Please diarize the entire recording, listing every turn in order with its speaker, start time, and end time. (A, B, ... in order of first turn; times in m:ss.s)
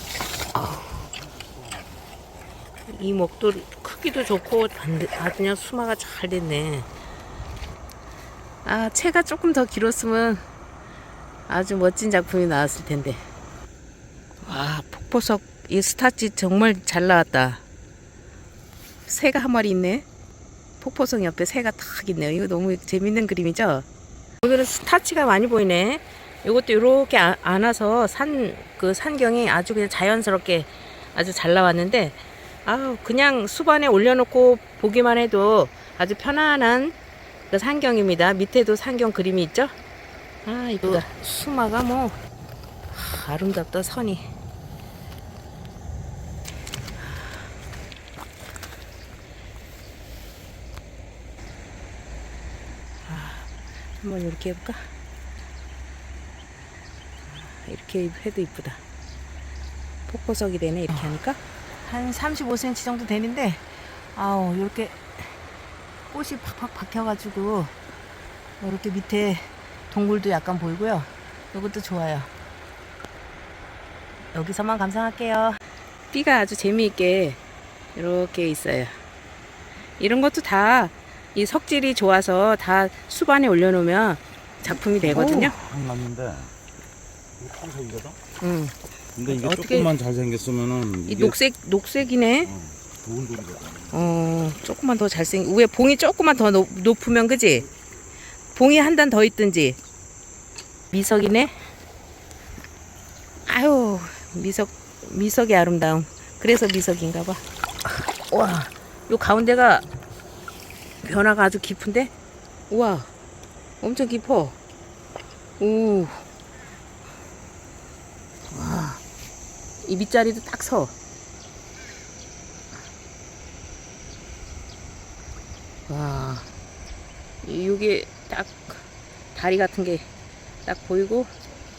0:00.8-0:02.1 A
0:02.9-0:06.9 B
0:08.6-0:10.4 B
0:11.5-0:13.2 B
0:14.4-0:17.6 B
0:19.1-0:20.0 B
0:20.8-0:23.8 B
0:24.4-0:37.0 B
0:37.5-0:39.7 B
0:40.4-0:42.2 B
0:42.9-0:44.3 B
0:53.0-0:53.5 B
0:54.0-0:54.9 B
0:57.3-0:58.8 B
1:00.1-1:05.3 B
1:06.1-1:07.7 B
1:08.6-1:12.3 B
1:14.3-1:15.6 B
1:16.1-1:17.4 B
1:18.0-1:19.0 B
1:20.0-1:25.5 B
1:25.0-1:26.5 A
1:27.4-1:28.2 A
1:28.4-1:28.7 B
1:29.2-1:31.4 A
1:29.3-1:29.9 B
1:31.1-1:32.5 B
1:32.4-1:34.1 A
1:33.9-1:37.7 B
1:38.5-1:39.8 B
1:40.9-1:41.6 B
1:43.5-1:47.4 B
1:48.3-1:49.8 B
1:51.0-1:52.1 B
1:52.7-1:53.1 B
1:53.8-1:54.6 B
1:55.6-1:56.2 B
1:58.5-1:59.0 B
1:59.8-2:00.9 B
2:05.9-2:06.5 B
2:07.4-2:08.8 B
2:09.3-2:10.1 B
2:10.7-2:11.3 B